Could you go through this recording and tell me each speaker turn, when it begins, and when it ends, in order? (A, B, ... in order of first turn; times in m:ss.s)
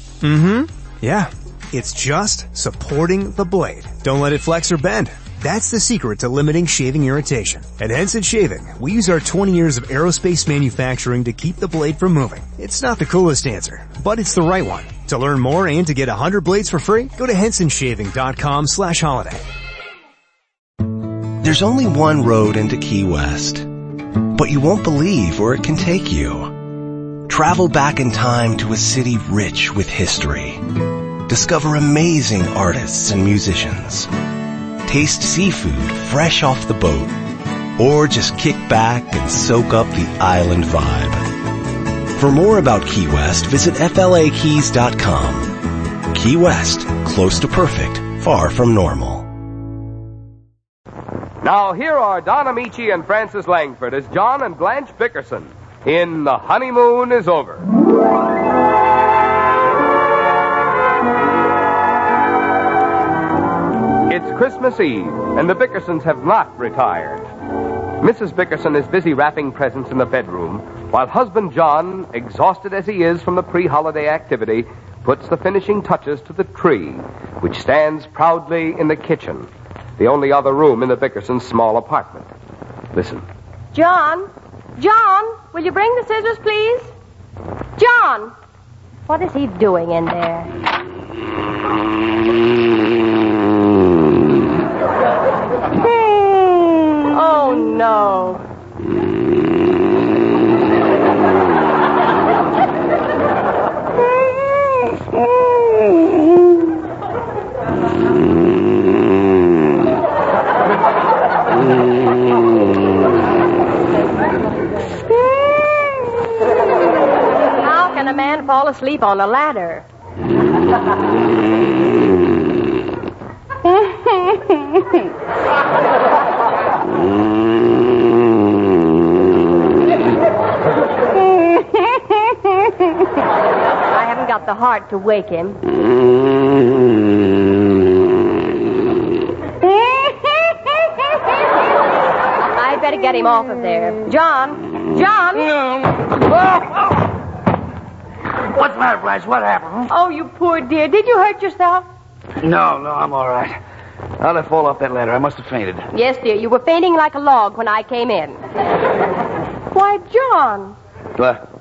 0:00.2-0:19.4 A
0:21.4-0:23.7 B
0:24.3-0:26.6 B
0:27.3-0:34.1 B
0:34.8-0:37.2 B
0:37.8-0:41.3 B
0:42.1-0:49.3 B
0:51.4-0:57.6 C
1:04.1-1:07.3 C
1:08.0-1:22.3 C
1:23.0-1:23.2 C
1:23.7-1:26.9 D
1:27.8-1:28.3 D
1:29.1-1:30.5 D
1:37.0-1:38.4 D
1:57.6-1:59.8 D
2:13.9-2:15.6 D
2:22.5-2:25.5 D
2:25.5-2:26.8 E
2:28.5-2:29.9 E
2:29.9-2:31.8 D
2:32.4-2:33.6 E
2:34.2-2:35.9 E
2:35.9-2:38.4 D
2:39.7-2:40.8 D